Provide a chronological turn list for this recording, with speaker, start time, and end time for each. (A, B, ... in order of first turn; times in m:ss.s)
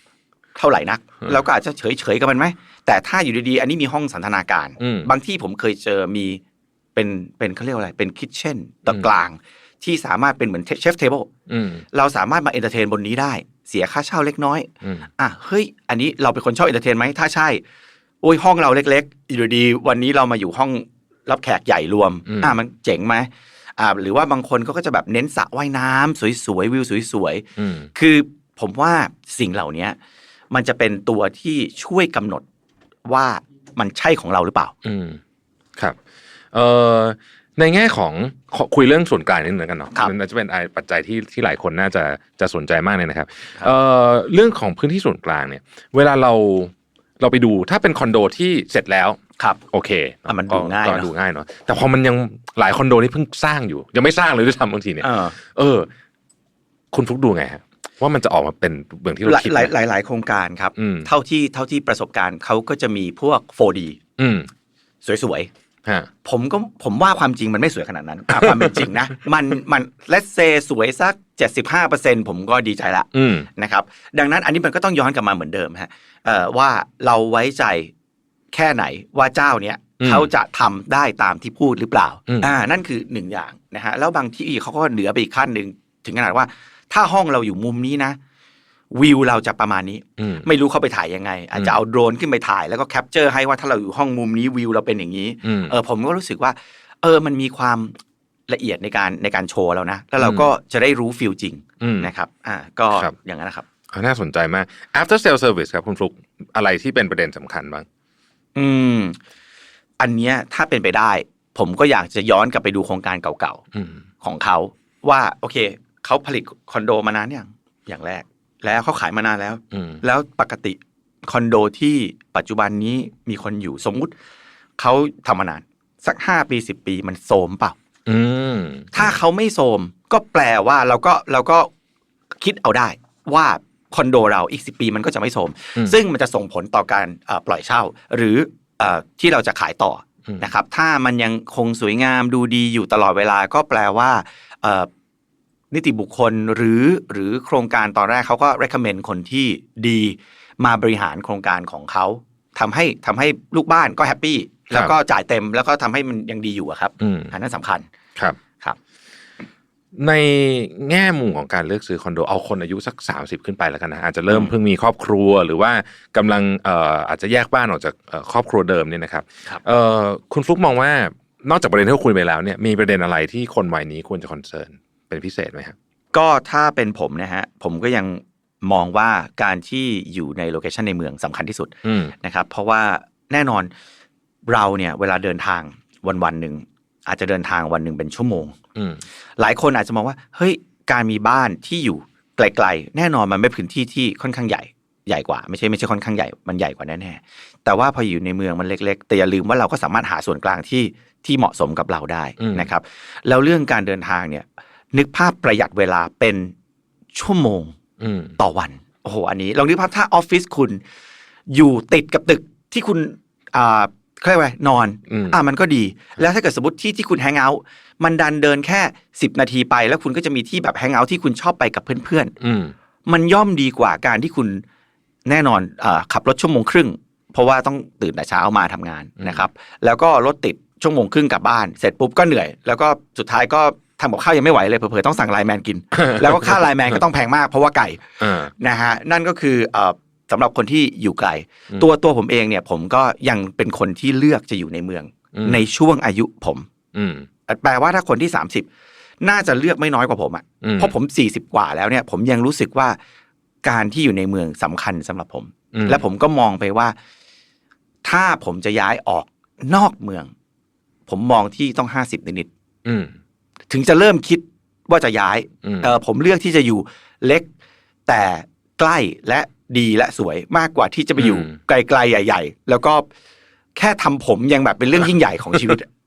0:00.5-0:06.4 A
0:04.8-0:05.1 B
0:06.9-0:11.3 A
0:11.5-0:11.8 B
0:11.9-0:17.6 A
0:18.2-0:30.0 A
0:22.2-0:22.6 B
0:27.6-0:27.9 B
0:30.5-0:32.4 A
0:33.0-0:34.7 A
0:34.8-0:35.2 B
0:36.5-0:49.2 B
0:49.7-0:55.9 B
0:50.2-0:51.1 A
0:55.0-0:55.3 A
0:56.9-0:59.7 B
0:59.2-1:04.0 A
1:00.8-1:01.1 B
1:04.2-1:04.5 B
1:05.0-1:05.5 A
1:06.2-1:17.9 A
1:13.1-1:13.5 B
1:18.5-1:28.2 A
1:20.0-1:20.3 B
1:28.9-1:38.0 A
1:30.2-1:30.4 B
1:35.4-1:35.8 B
1:38.5-1:43.6 A
1:40.2-1:40.5 B
1:41.8-1:42.1 B
1:43.9-1:47.8 B
1:48.5-1:49.2 A
1:50.0-1:53.6 A
1:53.7-1:54.0 B
1:54.2-2:04.1 A
1:59.7-2:00.0 B
2:04.8-2:07.8 A
2:08.1-2:09.2 B
2:08.9-2:11.7 A
2:12.4-2:24.9 A
2:25.7-2:37.9 A
2:37.0-2:37.3 B
2:39.9-2:55.7 B
2:56.1-3:03.7 A
3:01.8-3:02.1 B
3:04.4-3:08.6 A
3:08.8-3:09.0 B
3:09.4-3:26.5 A
3:22.4-3:22.7 B
3:27.1-3:27.7 A
3:28.0-3:28.3 B
3:28.4-3:30.8 A
3:31.5-3:42.3 A
3:35.1-3:35.4 B
3:42.4-3:42.7 B
3:43.0-3:44.6 A
3:45.2-4:06.7 A
3:58.2-3:58.5 B
4:05.4-4:05.6 B
4:06.9-4:07.2 B
4:07.5-4:08.7 A
4:09.2-4:13.0 A
4:10.6-4:10.9 B
4:13.6-4:16.9 A
4:15.7-4:16.0 B
4:18.0-4:20.3 A
4:21.1-4:22.5 A
4:22.8-4:23.1 B
4:23.7-4:27.5 A
4:25.6-4:25.9 B
4:28.0-4:33.0 A
4:31.2-4:31.5 B
4:33.7-4:35.9 A